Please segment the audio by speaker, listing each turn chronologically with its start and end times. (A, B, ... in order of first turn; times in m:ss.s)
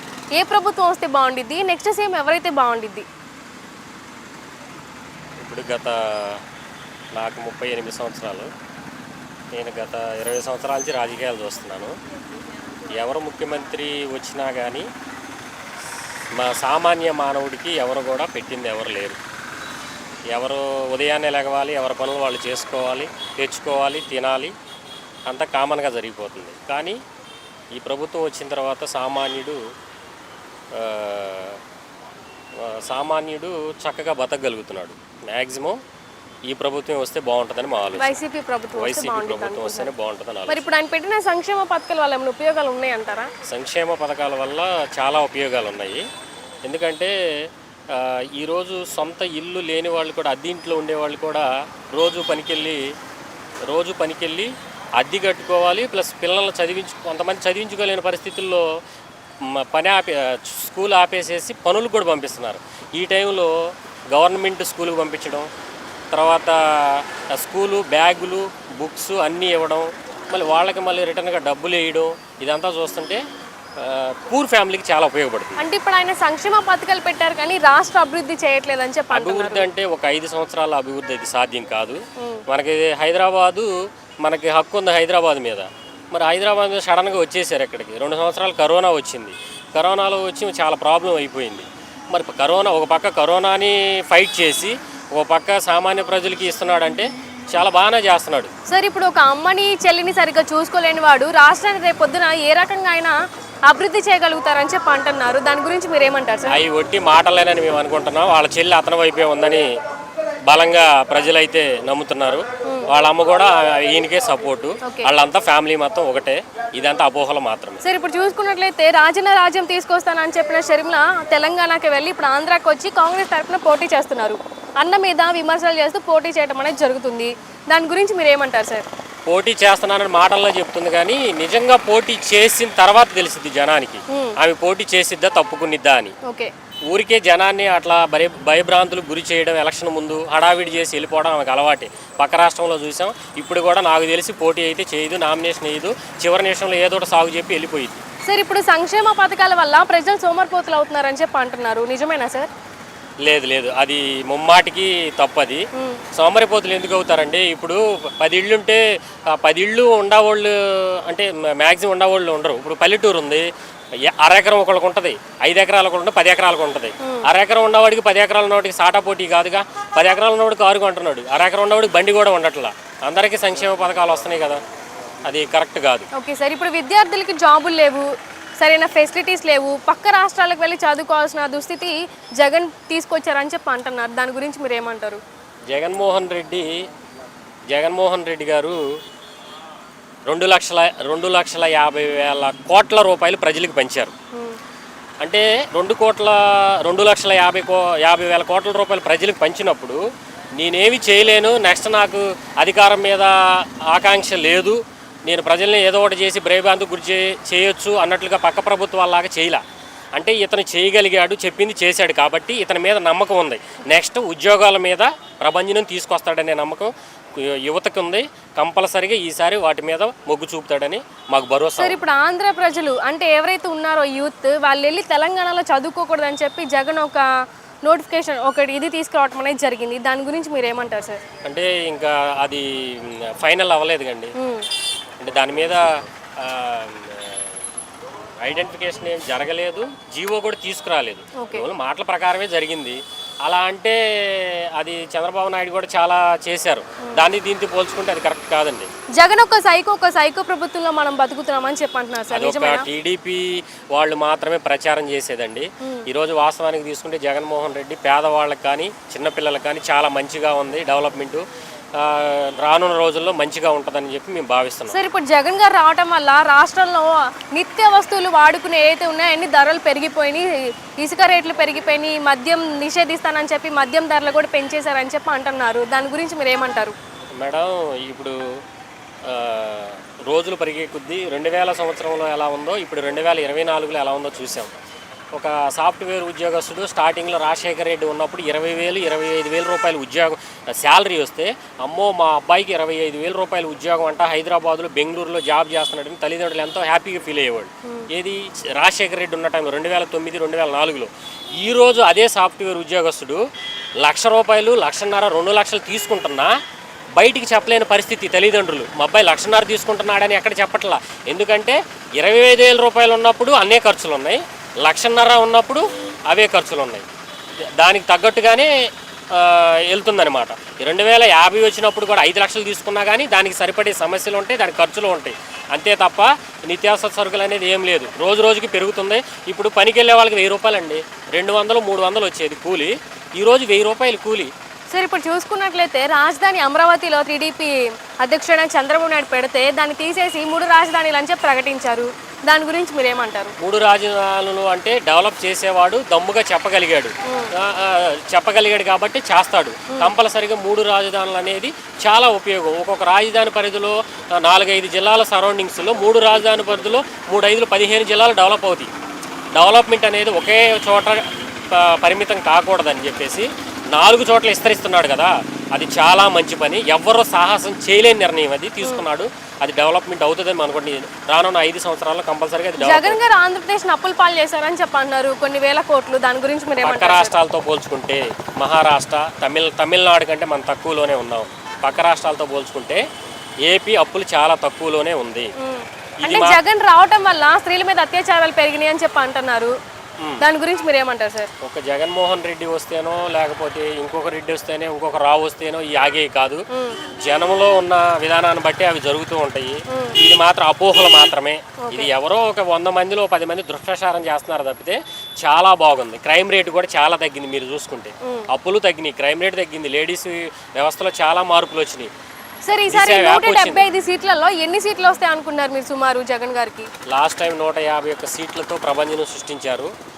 0:00.3-0:03.0 A
0:05.4-0:06.4 B
0:07.1-0:08.5 B
0:09.6-0:11.9 B
0:12.9-0:14.9 B
0:16.3-0:19.2 B
0:20.3-0:24.5 B
0:25.3-0:27.0 B
0:27.8-0:29.6 B
0:30.7-0:31.6 B
0:32.6-0:35.8 B
0:36.5-0:38.1 B
0:37.9-0:39.9 A
0:38.7-0:40.6 B
0:40.5-0:43.3 A
0:43.4-0:46.0 B
0:46.6-0:52.8 B
0:53.7-0:58.6 B
0:59.4-1:03.5 B
1:04.1-1:05.5 B
1:06.1-1:13.2 B
1:13.8-1:15.6 B
1:15.6-1:19.7 A
1:19.1-1:23.7 B
1:24.2-1:38.5 B
1:38.7-1:43.1 A
1:43.7-1:46.6 A
1:46.5-1:49.6 B
1:50.5-1:57.8 B
1:52.6-1:52.9 A
1:54.8-1:55.1 A
1:57.8-2:08.8 A
2:09.3-2:16.1 B
2:14.1-2:14.4 A
2:16.2-2:16.5 A
2:16.9-2:28.0 B
2:28.2-2:32.5 A
2:33.2-2:35.6 B
2:35.7-2:36.0 A
2:36.2-2:43.4 B
2:44.0-2:54.6 B
2:55.2-2:56.1 B
2:56.1-3:05.2 A
3:05.7-3:06.7 B
3:07.7-3:08.8 B
3:10.3-3:14.1 B
3:15.2-3:20.0 B
3:20.6-3:29.6 B
3:30.2-3:42.0 B
3:41.8-3:47.2 A
3:47.8-3:51.2 A
3:51.4-3:54.3 B
3:54.4-3:54.6 A
3:55.2-3:55.8 B
3:56.4-3:57.6 B
3:58.4-4:08.9 B
4:01.4-4:01.7 A
4:09.2-4:12.8 A
4:12.3-4:21.4 B
4:22.0-4:25.0 B
4:24.9-4:36.9 A
4:37.4-4:38.4 B
4:39.2-4:44.7 B
4:45.4-5:03.4 B
5:04.0-5:06.5 B
5:07.2-5:17.0 B
5:17.8-5:18.7 B
5:19.3-5:34.5 B
5:34.9-5:43.5 A
5:43.6-5:58.9 B
5:47.2-5:47.5 A
5:59.5-6:13.2 B
6:12.8-6:17.3 A
6:16.8-6:23.0 B
6:23.6-6:25.5 B
6:25.6-6:29.7 A
6:26.2-6:26.6 B
6:30.2-6:30.4 B
6:30.4-6:31.5 A
6:31.6-6:36.6 B
6:36.7-6:37.0 A
6:37.1-6:52.1 B
6:39.9-6:40.2 A
6:41.8-6:42.1 A
6:52.7-6:56.9 A
6:52.9-6:53.8 B
6:57.1-6:59.9 B